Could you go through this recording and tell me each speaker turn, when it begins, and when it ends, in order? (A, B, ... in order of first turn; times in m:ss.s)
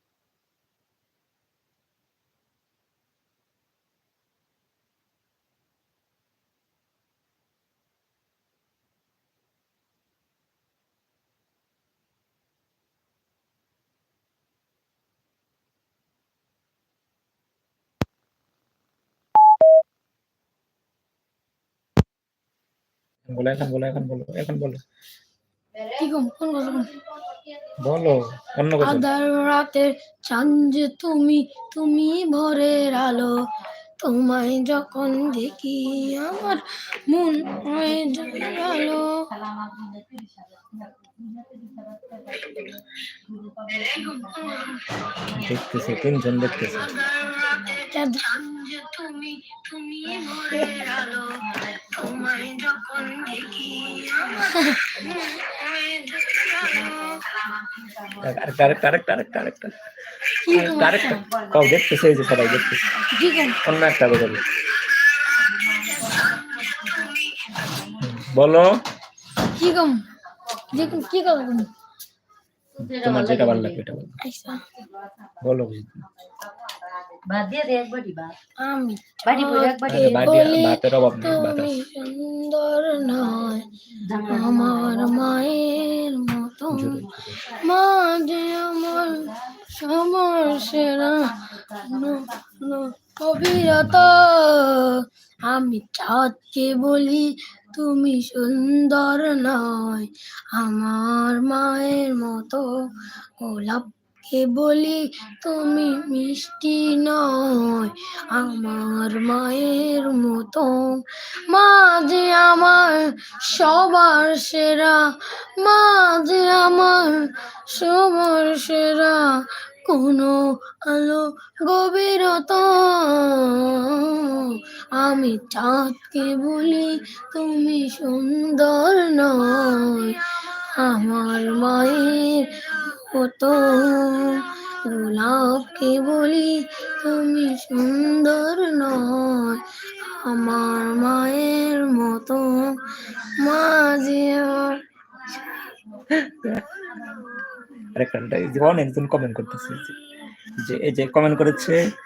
0:23.3-0:24.8 A
0:25.8-0:26.9 B
0:27.8-0:29.1 A
0:28.8-0:33.4 B
0:34.0-0:39.1 B
0:42.1-0:42.6 B
0:43.6-0:44.8 B
0:45.2-0:47.0 A
0:47.1-0:57.1 B
0:58.2-0:59.7 A
1:00.5-1:01.2 B
1:00.5-1:03.0 A
1:03.1-1:03.6 B
1:03.6-1:04.4 A
1:07.8-1:08.7 A
1:09.4-1:10.0 B
1:10.7-1:11.7 B
1:10.7-1:11.0 A
1:12.8-1:13.8 C
1:12.8-1:14.2 A
1:14.2-1:14.6 B
1:15.4-1:16.1 A
1:17.2-1:18.4 C
1:18.6-2:10.2 B
1:19.3-1:20.3 C
1:19.9-1:21.8 A
1:26.7-1:27.4 A
1:33.7-1:34.3 A
2:10.8-2:24.8 B
2:26.1-2:26.9 A
2:27.9-2:29.9 A
2:30.6-2:31.8 A